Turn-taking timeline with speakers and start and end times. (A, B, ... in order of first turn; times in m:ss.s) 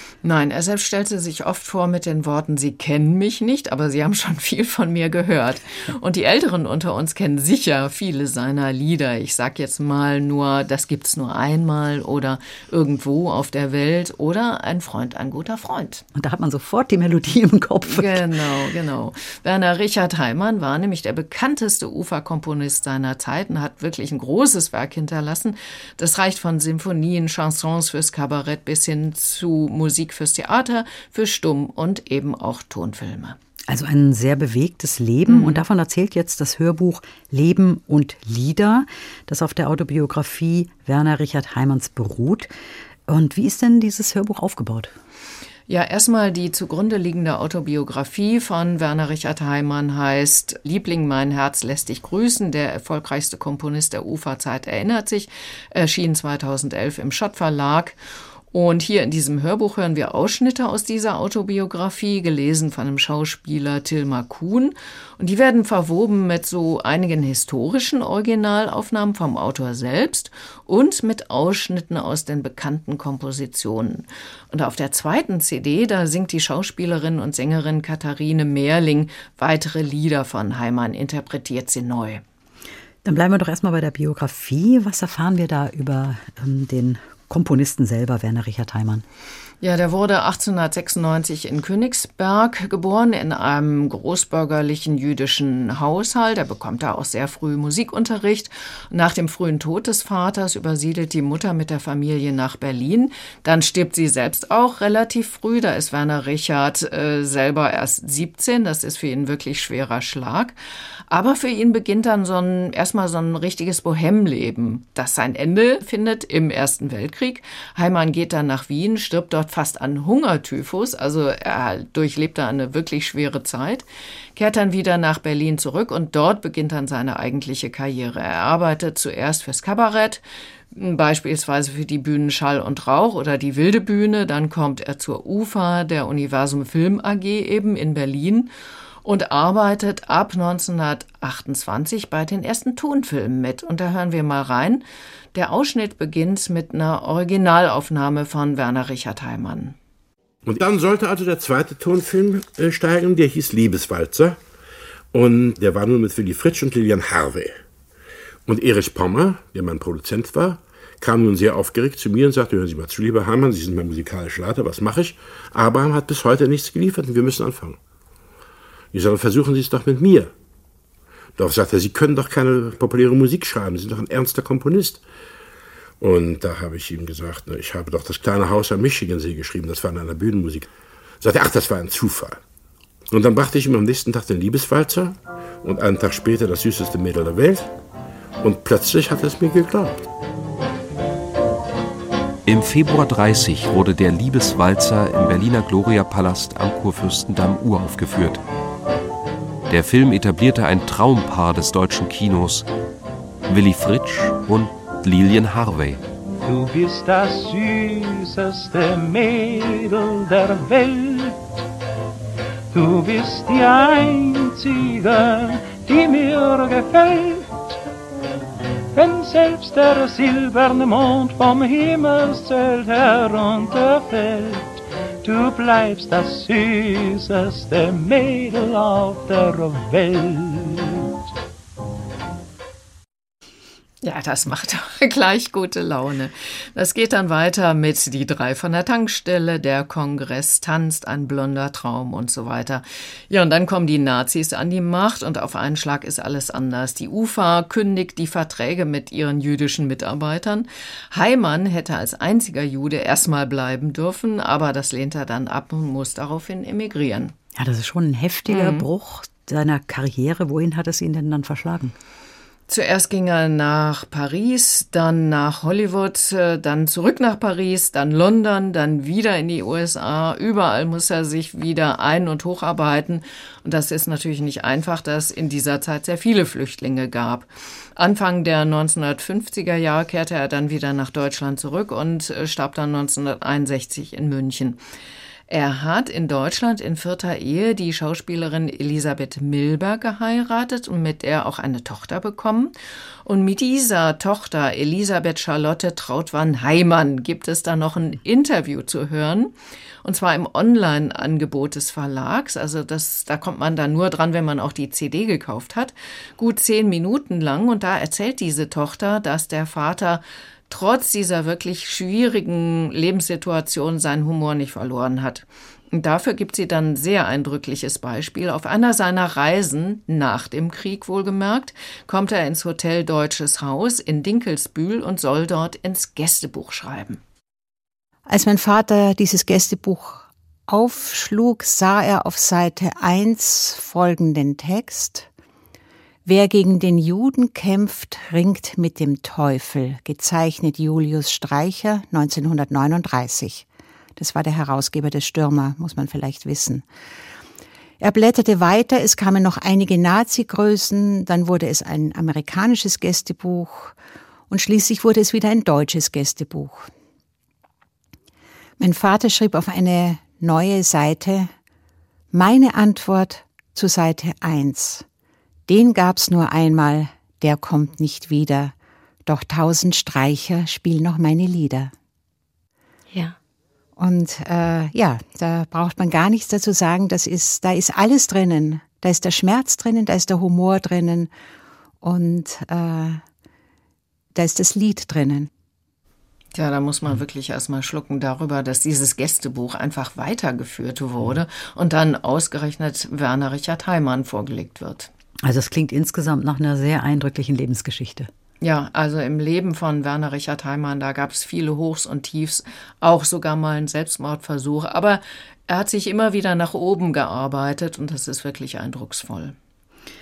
0:00.2-0:16.0 A
0:16.1-0:18.4 B
0:17.8-0:33.4 A
0:33.7-0:42.5 B
0:35.3-0:35.6 A
0:43.1-0:44.9 B
0:45.7-0:58.0 A
0:58.5-1:22.2 A
1:23.0-1:29.0 B
1:29.6-1:50.6 A
1:51.1-2:03.8 A
2:04.4-2:10.2 A
2:10.7-2:18.5 A
2:19.0-2:24.8 A
2:25.4-2:29.8 A
2:30.4-2:34.4 C
2:35.1-2:37.5 C
2:38.4-2:47.8 C
2:48.9-2:50.3 C
2:51.4-2:55.0 C
2:56.0-3:00.7 C
3:01.2-3:02.4 C
3:03.1-3:07.7 C
3:08.4-3:10.1 C
3:12.4-3:18.4 D
3:19.7-3:22.7 D
3:23.4-3:26.0 D
3:26.4-3:31.6 E
3:32.7-3:37.8 E
3:38.9-3:51.2 E
3:54.0-4:17.3 A
4:17.6-4:21.9 B
4:18.5-4:18.9 A
4:22.7-4:44.8 A
4:45.5-4:52.7 A
4:53.2-4:59.5 A
5:00.0-5:27.2 A
5:28.3-5:35.3 F
5:36.3-5:46.9 F
5:48.0-5:53.9 F
5:54.5-5:56.9 F
5:58.8-6:01.5 F
6:02.3-6:05.0 F
6:05.7-6:08.7 F
6:09.3-6:11.9 F
6:14.0-6:21.3 F
6:22.0-6:23.2 F
6:24.4-6:25.5 F
6:26.6-6:35.1 A
6:35.4-6:38.3 B
6:38.6-6:49.6 A